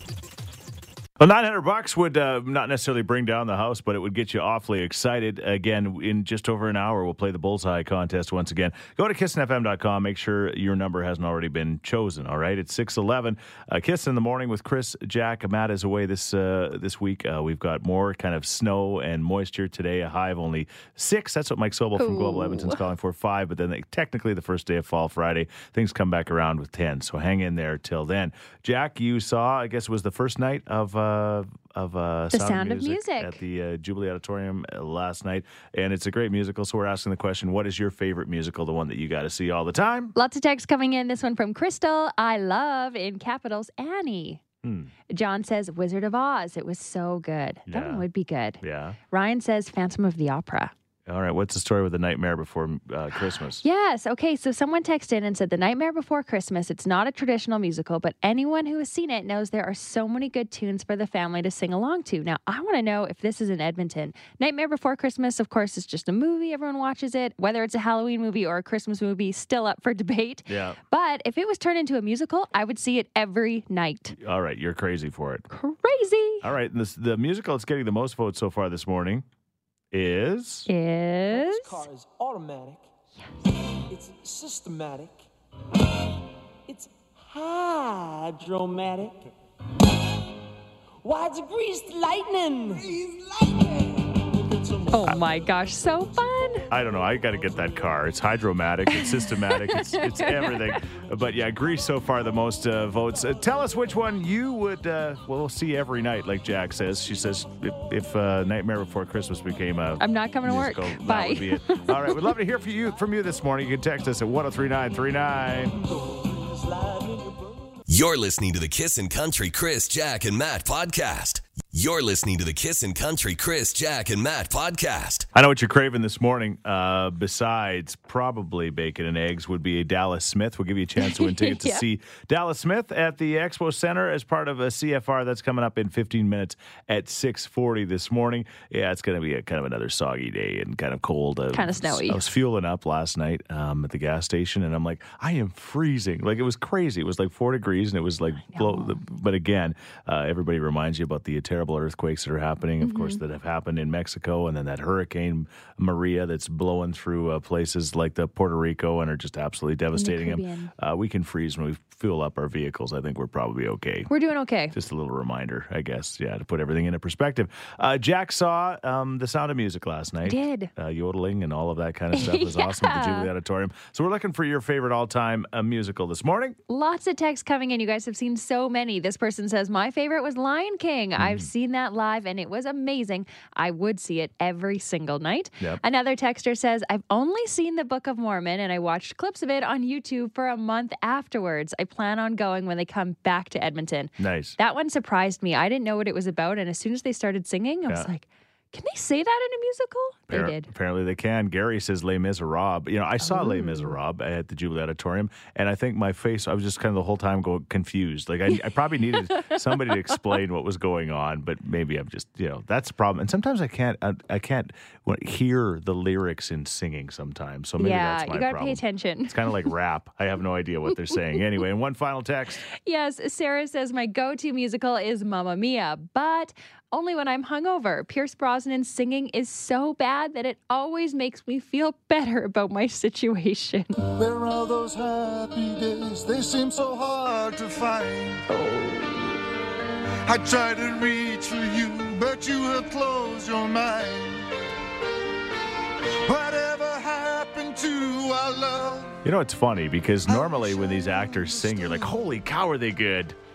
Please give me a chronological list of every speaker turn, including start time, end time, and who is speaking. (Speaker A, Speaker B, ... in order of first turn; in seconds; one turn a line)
Speaker A: 1.2-40.1
Speaker B: 22.0-22.8
Speaker B: 32.3-33.4
Speaker B: 40.1-44.4
Speaker A: 44.6-44.9
Speaker B: 45.1-50.7
Speaker A: 47.7-48.0
Speaker A: 48.6-49.0
Speaker A: 51.0-53.6
Speaker B: 53.6-74.2
Speaker A: 70.5-70.8
Speaker A: 74.2-75.5
Speaker B: 75.5-76.5
Speaker A: 76.4-79.2
Speaker A: 79.9-80.7
Speaker B: 80.7-81.8
Speaker C: 81.3-82.9
Speaker C: 83.8-85.3
Speaker C: 85.8-86.1
Speaker C: 86.7-89.3
Speaker C: 91.0-96.8
Speaker B: 94.9-96.7
Speaker A: 96.7-115.7
Speaker B: 98.9-100.8
Speaker B: 110.0-112.3
Speaker C: 115.7-117.8
Speaker D: 117.9-125.3
Speaker A: 125.3-164.1
Speaker B: 131.0-131.8
Speaker B: 141.5-142.2
Speaker B: 148.5-149.0
Speaker B: 152.8-153.2
Speaker B: 159.9-160.7
Speaker B: 164.1-164.7
Speaker A: 164.7-176.6
Speaker B: 170.2-170.7
Speaker B: 172.1-173.3
Speaker B: 176.7-200.7
Speaker A: 181.2-181.5
Speaker A: 194.2-194.6
Speaker A: 200.3-222.6
Speaker B: 203.2-203.9
Speaker B: 209.3-210.1
Speaker B: 217.8-219.7
Speaker B: 222.7-234.0
Speaker E: 234.1-238.4
Speaker B: 238.5-239.4
Speaker E: 240.2-244.5
Speaker E: 246.2-249.2
Speaker A: 249.2-253.3
Speaker E: 250.3-252.2